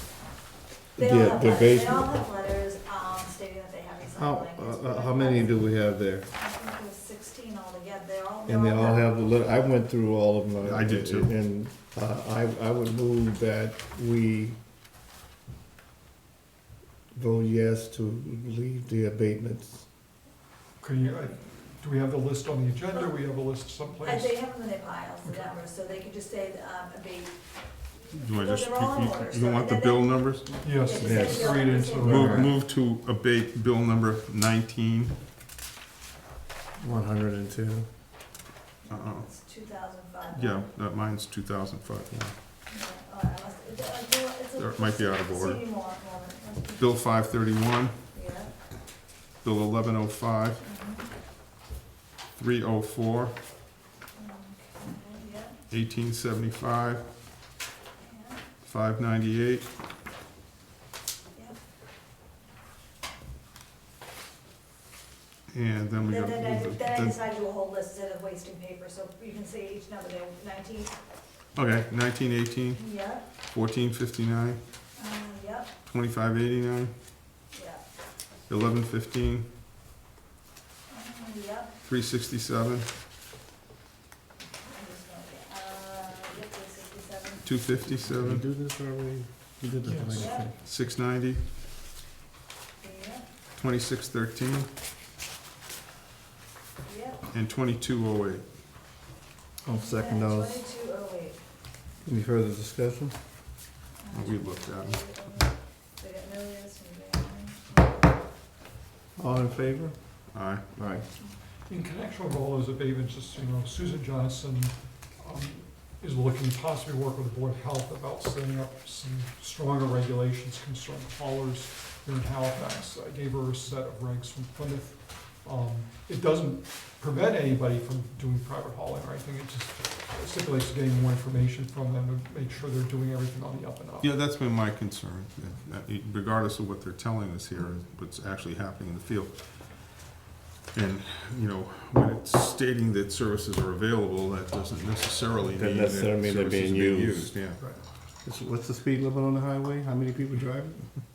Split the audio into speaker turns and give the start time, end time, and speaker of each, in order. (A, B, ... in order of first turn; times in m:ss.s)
0:01.0-0:02.2 A
0:01.0-0:05.6 B
0:04.1-0:06.3 A
0:06.4-0:09.1 B
0:08.4-0:14.6 A
0:10.6-0:11.3 C
0:17.1-0:19.9 A
0:20.8-0:24.4 D
0:21.0-0:21.3 B
0:24.0-0:32.5 B
0:25.2-0:25.5 D
0:28.1-0:30.7 C
0:30.6-0:32.4 D
0:31.0-0:32.5 A
0:32.0-0:35.1 C
0:36.8-0:37.9 A
0:38.8-0:40.7 B
0:38.9-0:39.3 C
0:40.3-0:42.3 C
0:42.7-0:46.9 B
0:44.6-0:45.6 C
0:46.8-0:47.9 C
0:48.1-0:48.5 B
0:49.4-0:50.6 C
0:50.6-0:51.1 B
0:52.4-0:53.3 C
0:54.2-0:55.6 B
0:55.7-0:57.0 C
0:58.0-0:58.4 B
0:58.6-0:59.7 C
1:05.5-1:07.2 C
1:06.1-1:10.9 B
1:11.5-1:12.8 C
1:12.8-1:13.2 B
1:13.5-1:14.6 C
1:15.0-1:15.7 B
1:15.8-1:16.9 C
1:17.5-1:17.8 B
1:18.5-1:19.5 C
1:20.9-1:21.8 B
1:21.8-1:22.9 C
1:24.6-1:27.5 B
1:27.4-1:28.4 C
1:28.1-1:30.5 A
1:29.8-1:30.3 D
1:30.2-1:30.5 B
1:30.6-1:31.4 C
1:32.8-1:33.2 B
1:33.6-1:34.7 C
1:36.8-1:37.2 B
1:37.3-1:38.4 C
1:39.6-1:40.6 A
1:39.7-1:41.4 B
1:42.0-1:43.2 A
1:44.0-1:48.1 B
1:44.1-1:45.0 C
1:49.2-1:50.2 A
1:50.3-1:50.6 C
1:50.7-1:51.0 A
1:51.6-2:14.1 D
2:14.0-2:20.0 C
2:20.7-2:27.6 C
2:25.5-2:27.3 A
2:28.2-2:30.8 A